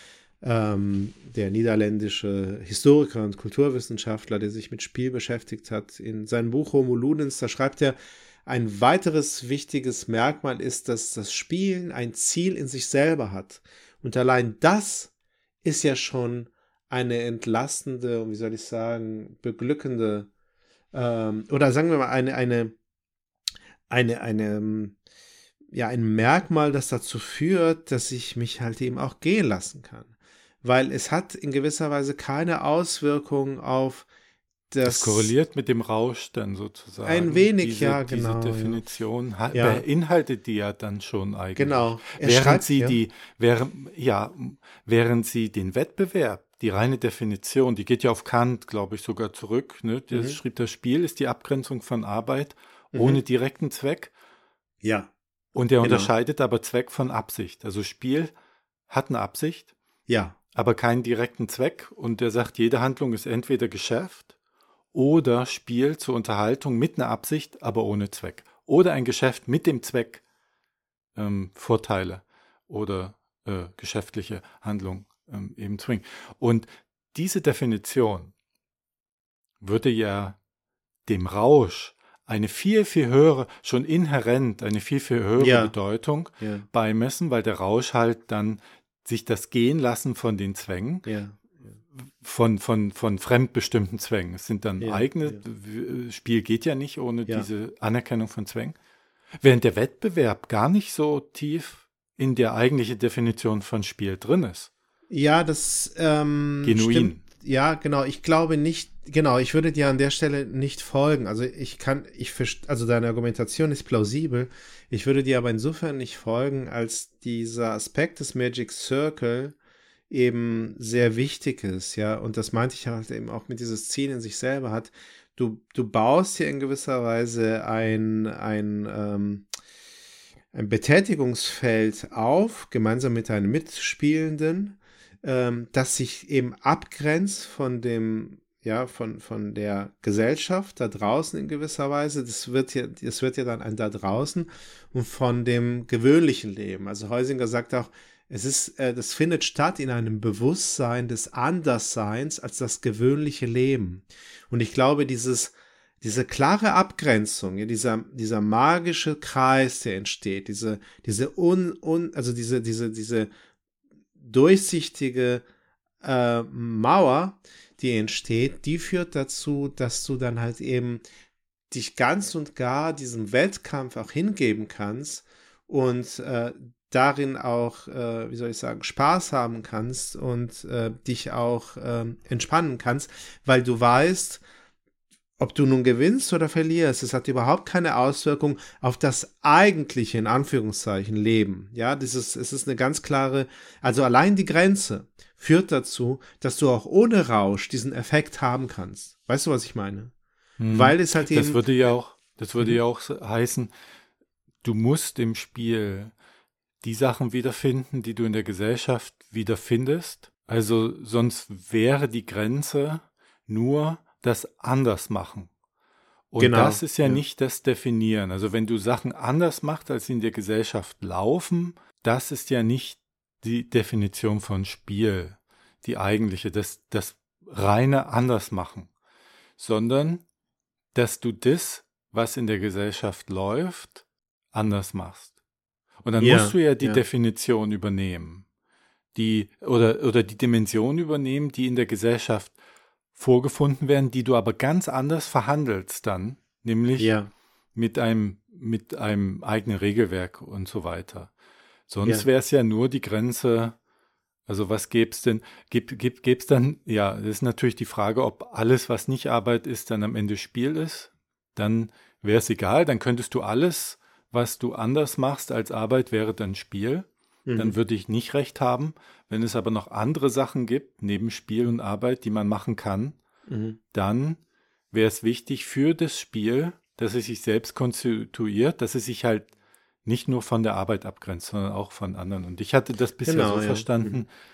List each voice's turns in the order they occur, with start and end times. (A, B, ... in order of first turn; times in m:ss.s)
0:00.4-0:15.1 A
0:15.6-0:20.3 A
0:20.9-0:22.8 A
0:23.9-0:25.0 A
0:25.7-0:30.1 A
0:30.6-0:34.1 A
0:34.7-0:35.3 A
0:34.8-0:54.1 B
0:37.0-0:38.8 A
0:39.5-0:39.8 A
0:41.6-0:43.0 A
0:50.1-0:50.4 A
0:52.9-0:53.2 A
0:54.8-0:55.1 A
0:55.5-0:58.3 B
0:55.8-0:56.1 A
0:58.9-0:59.7 B
1:00.1-1:00.4 A
1:00.5-1:04.3 B
1:04.9-1:10.2 B
1:11.2-1:18.3 B
1:19.6-1:20.4 B
1:21.1-1:31.1 B
1:25.4-1:25.8 A
1:26.4-1:26.7 A
1:31.0-1:31.6 A
1:32.0-1:38.8 B
1:34.8-1:35.4 A
1:39.4-1:44.7 B
1:45.1-1:59.6 A
1:46.6-1:47.2 B
2:00.1-2:09.5 A
2:10.5-2:43.3 A
2:44.2-2:45.4 A
2:46.0-2:51.0 A
2:51.7-3:04.4 A
3:05.4-3:20.1 A
3:20.6-3:23.7 B
3:20.7-3:21.6 A
3:24.6-3:26.1 B
3:26.8-3:35.5 B
3:36.3-3:48.9 B
3:36.4-3:37.2 A
3:49.6-3:50.2 B
3:50.9-3:55.3 B
3:56.0-3:58.4 B
3:56.2-3:57.0 A
3:59.2-4:02.6 B
4:03.2-4:07.2 B
4:07.0-4:07.3 A
4:07.8-4:11.3 B
4:11.9-4:13.8 B
4:14.5-4:33.2 B
4:27.5-4:27.8 A
4:33.5-4:33.8 A
4:33.9-4:34.4 B
4:34.9-4:39.5 B
4:40.0-4:44.3 B
4:43.2-4:44.2 A